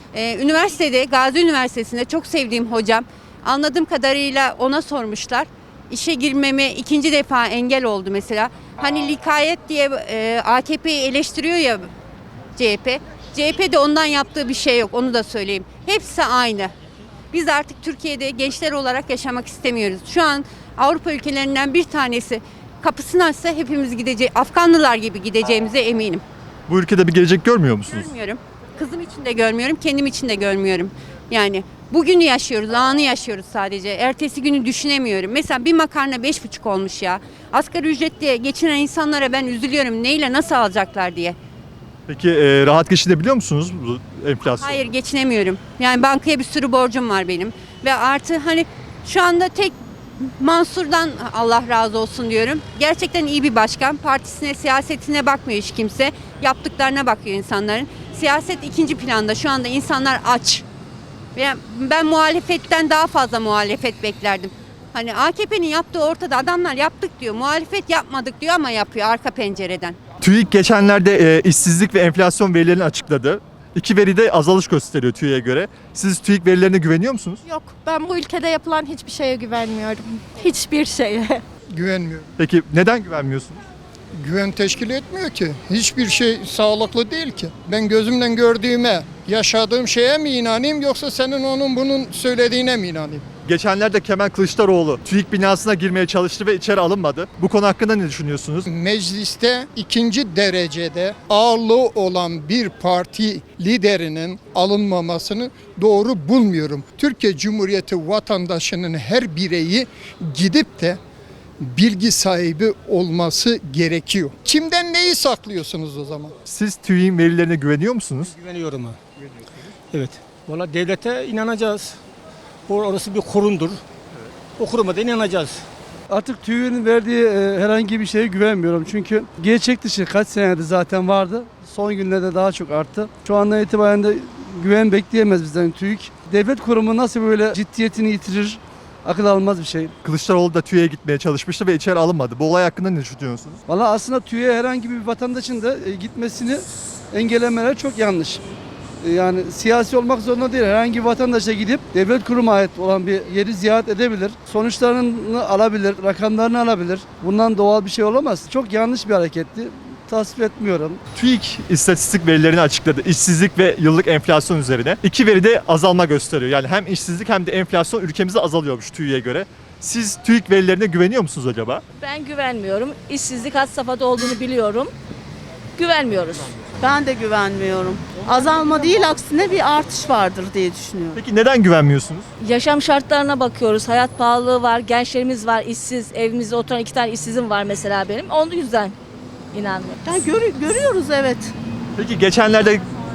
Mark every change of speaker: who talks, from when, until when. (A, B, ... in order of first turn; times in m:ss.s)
0:00.1-0:11.9 A
0:12.6-0:16.7 A
0:17.3-0:26.2 A
0:26.7-0:28.1 B
0:27.9-0:41.4 A
0:42.1-0:44.8 B
0:44.6-1:00.6 A
1:01.4-1:10.0 A
1:10.2-1:17.4 B
1:17.5-1:21.4 C
1:21.7-1:22.3 D
1:22.4-1:23.6 B
1:24.2-1:33.2 D
1:33.4-1:38.7 B
1:38.7-1:51.0 D
1:51.6-1:56.3 D
1:56.5-1:58.3 B
1:58.3-1:59.0 E
1:59.9-2:02.0 E
2:02.7-2:03.8 E
2:04.6-2:05.6 E
2:06.1-2:19.9 F
2:20.0-2:23.6 B
2:23.7-2:28.4 F
2:29.0-2:41.0 F
2:41.2-2:51.8 B
2:52.0-2:54.9 G
2:55.8-2:56.5 G
2:56.8-3:01.2 H
3:01.1-3:02.3 B
3:02.4-3:09.0 G
3:09.5-3:10.0 G
3:10.1-3:11.5 H
3:12.0-3:12.8 B